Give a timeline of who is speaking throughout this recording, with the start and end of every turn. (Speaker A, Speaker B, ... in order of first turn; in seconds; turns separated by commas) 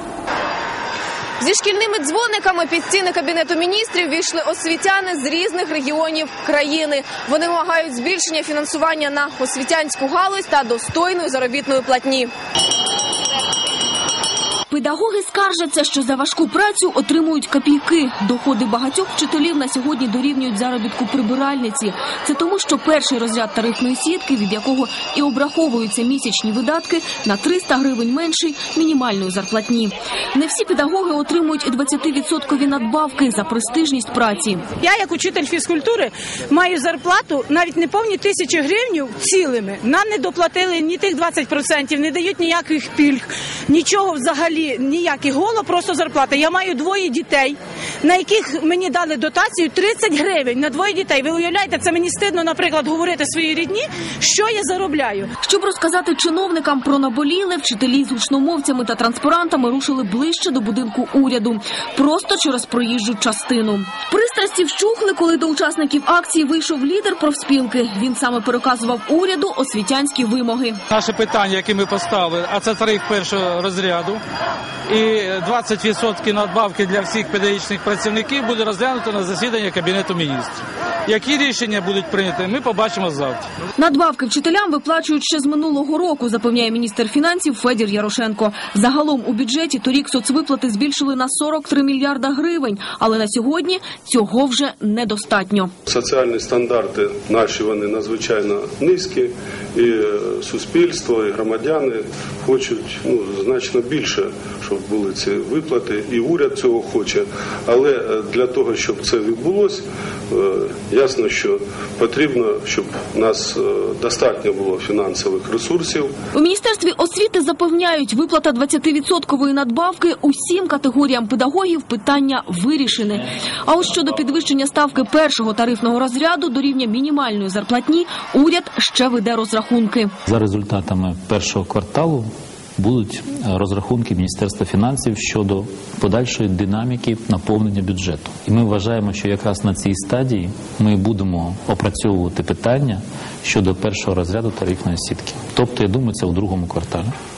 Speaker A: 1.4-12.3, Speaker B: 14.7-34.6, Speaker C: 34.8-55.3, Speaker B: 55.4-70.8, Speaker D: 70.9-74.2, Speaker D: 74.9-83.5, Speaker B: 83.8-95.7, Speaker E: 95.9-116.1, Speaker B: 116.3-130.1, Speaker F: 130.3-147.1